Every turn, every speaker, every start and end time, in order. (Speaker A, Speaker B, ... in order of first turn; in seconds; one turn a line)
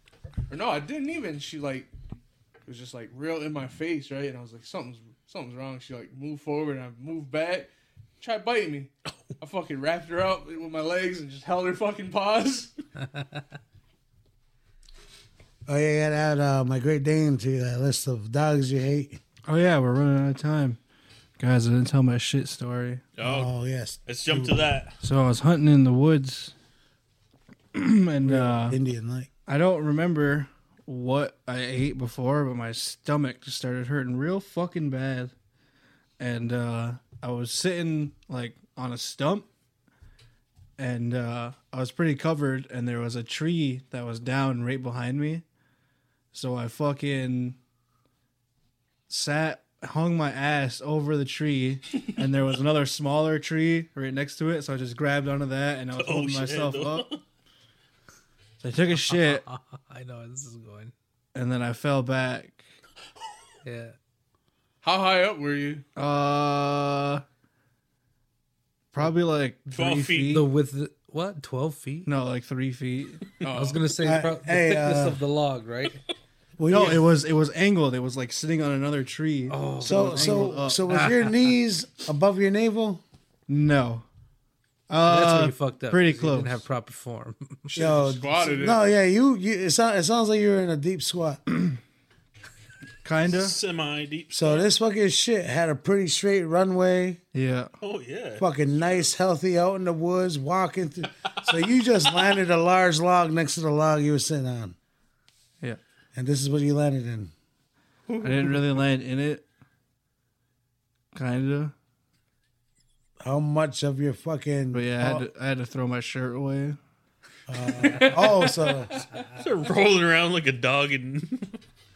Speaker A: 0.5-1.9
Speaker A: 2.6-12.7
Speaker B: 15.7-19.2
Speaker C: 19.4-20.8
Speaker C: 21.4-23.0
Speaker D: 23.2-23.5
Speaker B: 23.2-24.7
Speaker D: 24.1-24.9
Speaker C: 25.0-26.5
Speaker C: 27.7-28.8
Speaker B: 28.2-29.3
Speaker C: 29.5-35.3
Speaker C: 36.2-39.5
Speaker C: 40.8-45.4
Speaker C: 46.3-47.6
Speaker C: 49.1-57.1
Speaker D: 55.9-57.2
Speaker C: 58.6-59.5
Speaker E: 59.1-60.9
Speaker C: 61.3-62.7
Speaker E: 63.6-64.0
Speaker A: 64.8-65.8
Speaker C: 66.0-67.2
Speaker C: 68.9-70.5
Speaker D: 69.7-70.4
Speaker E: 70.3-72.1
Speaker C: 72.0-73.2
Speaker A: 73.4-73.8
Speaker E: 73.5-76.0
Speaker B: 74.0-75.2
Speaker B: 76.6-77.0
Speaker C: 76.6-81.1
Speaker E: 79.5-81.3
Speaker B: 79.8-83.0
Speaker C: 83.5-84.0
Speaker C: 84.9-86.6
Speaker E: 85.0-87.8
Speaker A: 87.7-88.8
Speaker B: 87.8-91.4
Speaker C: 93.0-93.6
Speaker D: 93.3-94.7
Speaker B: 94.3-97.2
Speaker C: 97.3-97.7
Speaker D: 97.8-99.1
Speaker B: 98.4-104.8
Speaker B: 106.1-107.3
Speaker D: 108.1-108.5
Speaker C: 108.2-109.4
Speaker C: 111.1-111.7
Speaker B: 113.2-115.3
Speaker C: 114.7-116.8
Speaker B: 117.5-118.9
Speaker D: 119.3-121.6